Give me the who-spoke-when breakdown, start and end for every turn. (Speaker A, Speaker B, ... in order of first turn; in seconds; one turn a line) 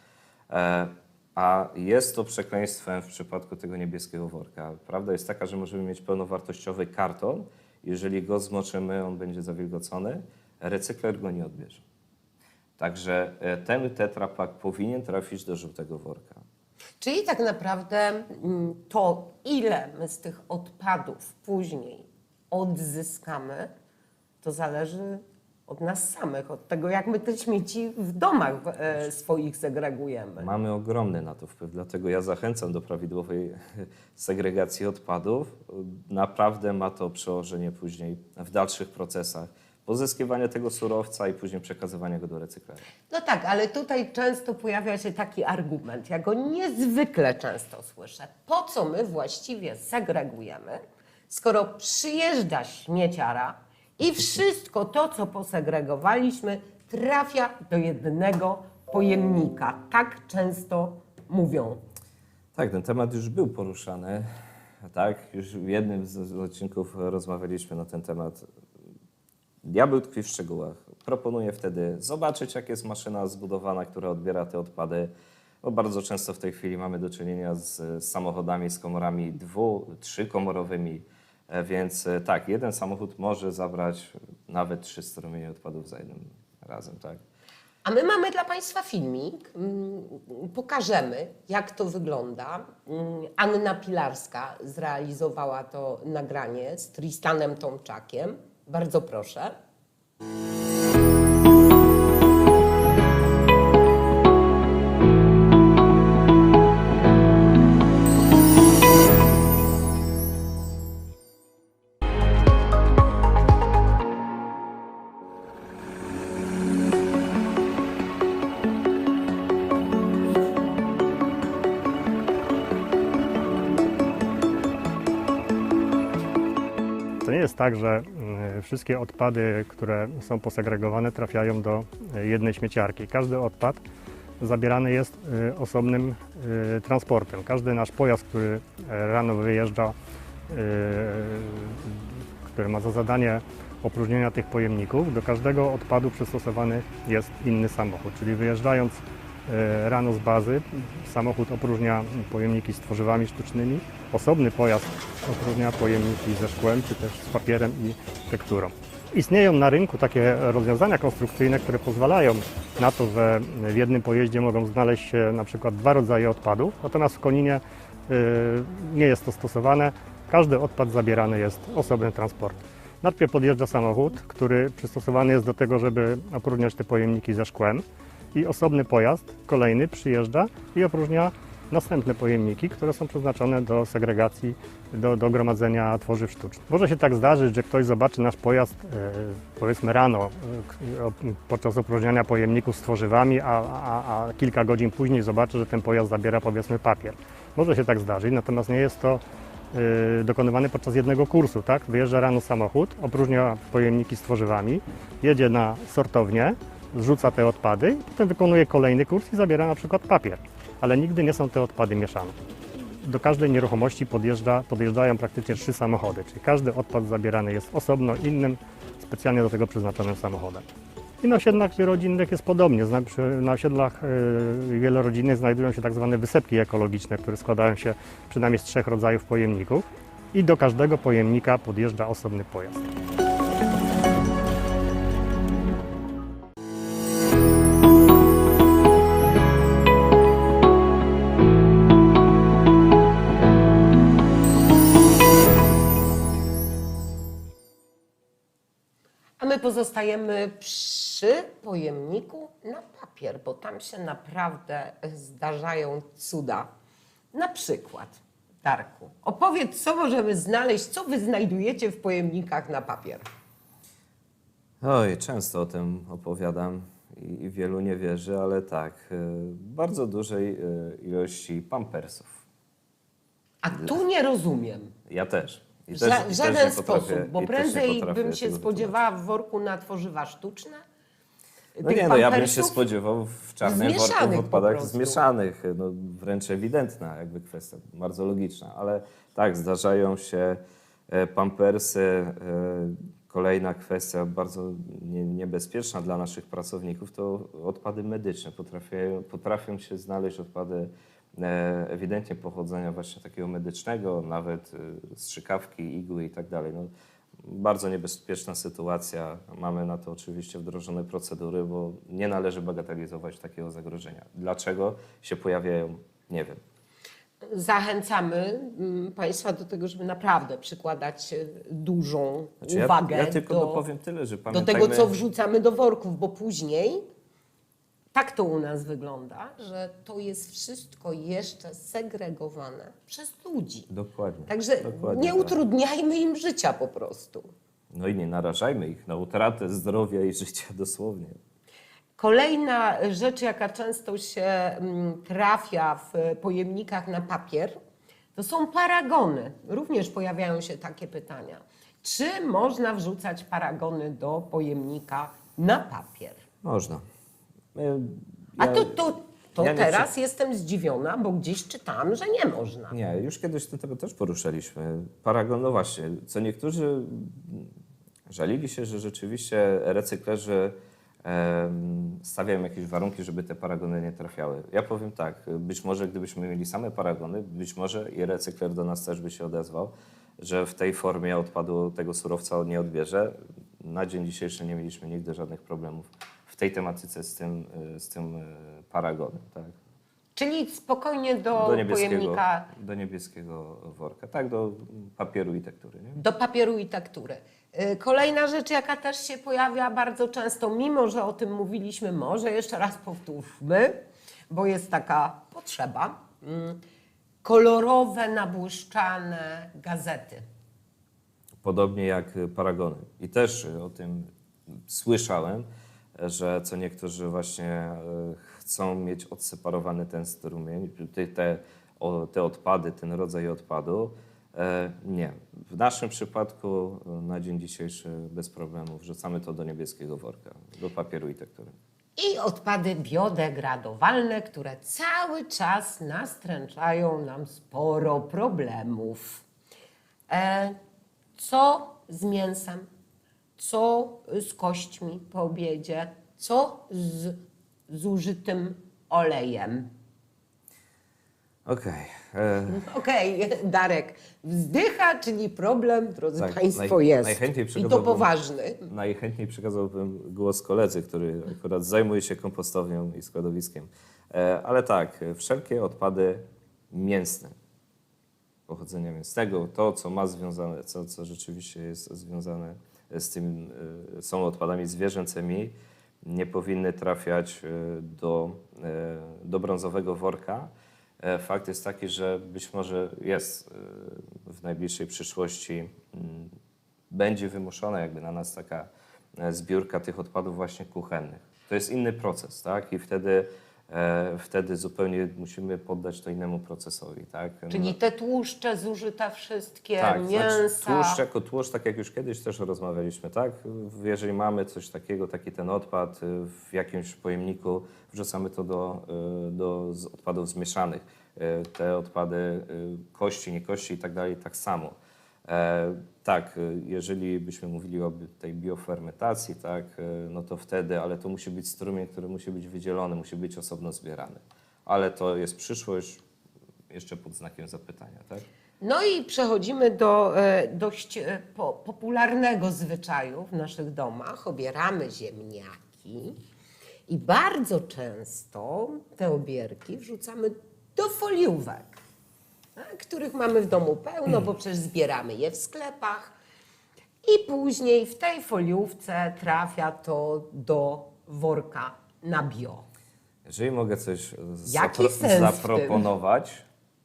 Speaker A: 0.5-11.8
Speaker A: 12.8-16.4
Speaker B: 17.0-23.7
Speaker B: 24.4-30.5
Speaker A: 30.4-42.9
Speaker B: 43.1-61.8
Speaker A: 62.5-64.3
Speaker A: 64.9-68.5
Speaker A: 69.6-87.2
Speaker B: 87.8-99.5
Speaker C: 127.2-133.8
Speaker C: 134.4-139.9
Speaker C: 140.5-212.3
Speaker C: 212.9-220.7
Speaker C: 221.2-232.8
Speaker B: 249.4-256.7
Speaker B: 257.3-263.2
Speaker A: 264.8-272.4
Speaker B: 273.6-274.9
Speaker A: 275.1-279.0
Speaker B: 275.9-280.8
Speaker B: 281.8-282.8
Speaker A: 281.8-306.9
Speaker B: 283.6-285.2
Speaker A: 307.4-316.6
Speaker B: 317.4-323.8
Speaker A: 322.6-325.1
Speaker B: 324.5-327.0
Speaker B: 328.1-333.9
Speaker A: 333.9-335.6
Speaker B: 334.5-337.5
Speaker A: 337.9-341.4
Speaker B: 342.1-347.8
Speaker B: 348.3-356.4
Speaker A: 356.6-357.0
Speaker A: 357.7-359.0
Speaker B: 358.6-363.0
Speaker A: 359.6-360.1
Speaker A: 362.9-367.7
Speaker A: 368.3-389.7
Speaker B: 390.3-392.7
Speaker A: 391.5-396.2
Speaker B: 396.1-403.9
Speaker B: 404.5-406.8
Speaker B: 407.4-410.4
Speaker A: 411.6-414.3
Speaker A: 414.9-431.7
Speaker B: 432.2-439.4
Speaker B: 440.3-440.8
Speaker B: 441.4-442.9
Speaker B: 443.6-449.9
Speaker A: 451.6-452.8
Speaker B: 452.7-458.9
Speaker A: 456.4-458.3
Speaker A: 458.9-467.5
Speaker A: 468.7-480.7
Speaker A: 481.2-486.5
Speaker A: 487.1-497.9
Speaker B: 497.7-501.2
Speaker A: 500.0-514.9
Speaker A: 515.5-526.2
Speaker A: 526.9-528.5
Speaker B: 528.8-536.4
Speaker B: 537.1-542.0
Speaker B: 542.8-546.3
Speaker B: 547.2-552.8
Speaker A: 553.5-556.6
Speaker B: 554.6-556.1